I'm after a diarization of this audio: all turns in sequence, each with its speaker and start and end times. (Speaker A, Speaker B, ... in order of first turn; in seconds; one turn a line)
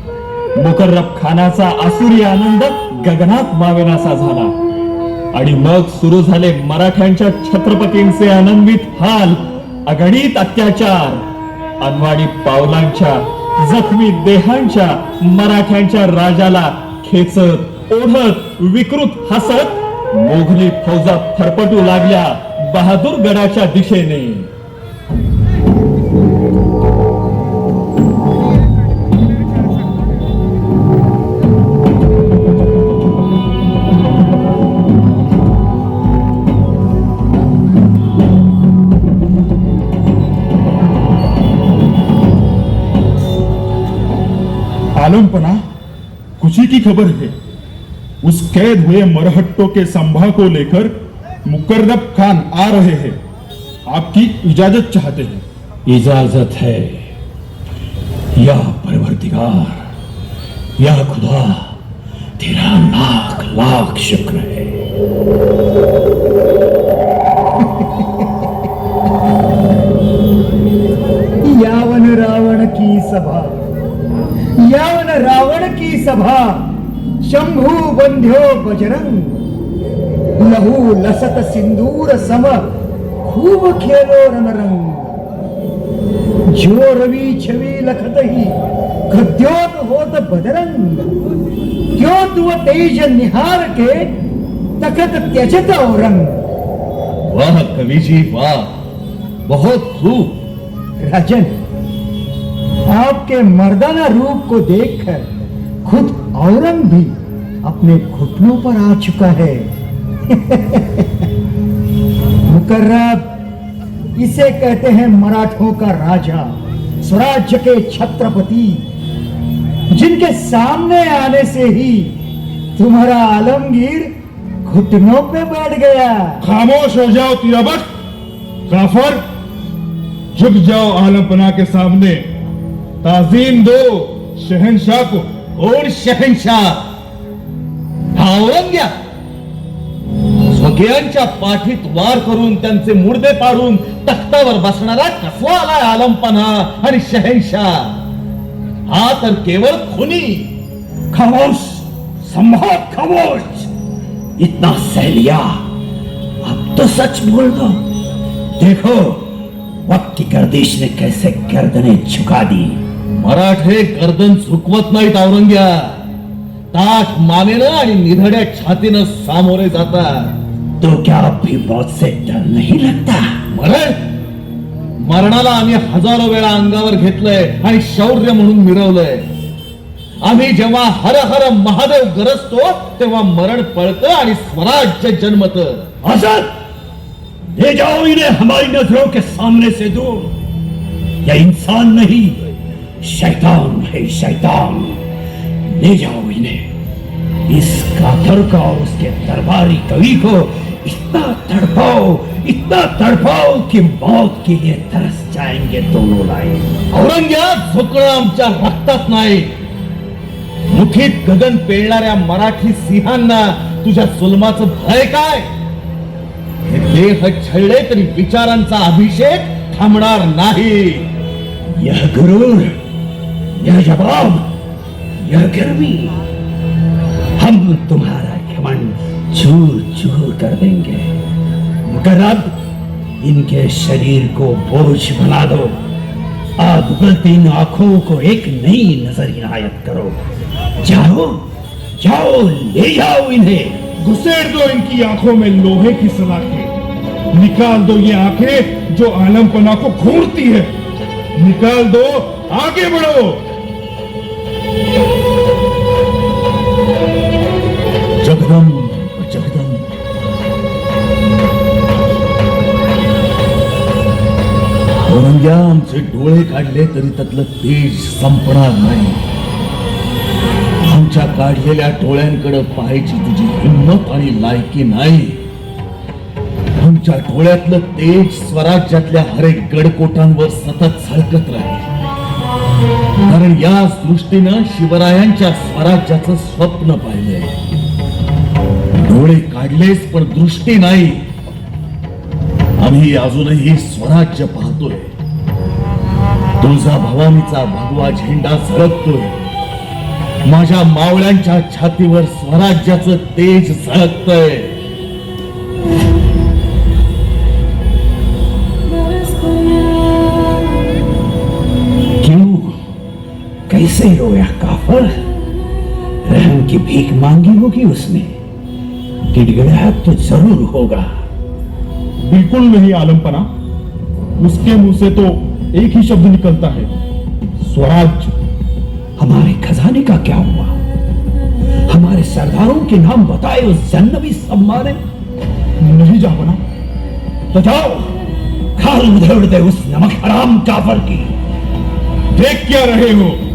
Speaker A: 0.6-4.5
Speaker A: 5.3-11.2
Speaker A: 11.8-24.5
Speaker B: 45.0-45.6
Speaker B: 46.4-47.3
Speaker B: 48.2-53.2
Speaker B: 53.9-55.4
Speaker C: 55.9-57.1
Speaker C: 58.4-59.9
Speaker C: 60.8-61.7
Speaker C: 62.4-64.8
Speaker D: 71.4-73.6
Speaker D: 74.6-76.7
Speaker D: 77.2-79.4
Speaker D: 80.4-82.7
Speaker D: 83.2-85.2
Speaker D: 86.5-88.6
Speaker D: 89.1-91.1
Speaker D: 92.0-94.1
Speaker D: 94.8-96.5
Speaker E: 97.3-98.7
Speaker E: 99.5-100.4
Speaker D: 101.0-101.5
Speaker D: 102.9-105.3
Speaker D: 105.8-109.7
Speaker D: 110.3-111.1
Speaker D: 112.5-113.3
Speaker D: 114.2-118.8
Speaker D: 119.9-122.1
Speaker D: 122.8-124.1
Speaker D: 124.7-126.4
Speaker B: 126.4-127.9
Speaker B: 128.7-129.2
Speaker B: 130.3-132.2
Speaker B: 133.0-135.3
Speaker E: 135.6-136.8
Speaker E: 138.2-138.9
Speaker E: 140.5-147.9
Speaker E: 148.9-150.5
Speaker C: 151.1-153.7
Speaker C: 154.4-155.7
Speaker C: 156.4-157.8
Speaker C: 158.6-159.3
Speaker C: 159.9-162.8
Speaker E: 163.2-166.0
Speaker E: 166.7-170.3
Speaker C: 170.8-173.4
Speaker E: 173.5-174.0
Speaker E: 175.0-179.2
Speaker E: 180.2-185.9
Speaker C: 186.0-186.5
Speaker C: 187.6-190.3
Speaker C: 191.2-192.5
Speaker C: 193.0-195.1
Speaker C: 195.7-196.7
Speaker C: 197.5-206.8
Speaker E: 206.9-209.5
Speaker E: 210.7-215.5
Speaker E: 216.7-221.1
Speaker C: 221.8-222.8
Speaker C: 223.6-224.5
Speaker C: 225.2-226.2
Speaker C: 227.4-231.2
Speaker C: 231.9-232.6
Speaker C: 233.2-235.8
Speaker C: 236.6-240.2
Speaker C: 240.8-241.4
Speaker C: 242.0-243.8
Speaker B: 244.0-246.7
Speaker B: 247.3-250.7
Speaker B: 251.4-253.4
Speaker E: 258.2-259.9
Speaker E: 265.1-269.2
Speaker E: 270.8-275.4
Speaker E: 276.8-281.9
Speaker E: 283.2-287.6
Speaker E: 289.0-291.2
Speaker E: 292.8-295.1
Speaker E: 296.6-299.4
Speaker E: 300.4-304.7
Speaker C: 312.2-312.8
Speaker C: 313.7-315.1
Speaker C: 316.2-318.4
Speaker C: 319.3-321.1
Speaker B: 322.2-323.5
Speaker B: 324.4-326.9
Speaker B: 327.6-328.3
Speaker C: 329.2-330.8
Speaker C: 331.9-335.0
Speaker B: 335.8-336.6
Speaker C: 337.5-338.1
Speaker C: 338.8-341.3
Speaker B: 342.4-343.4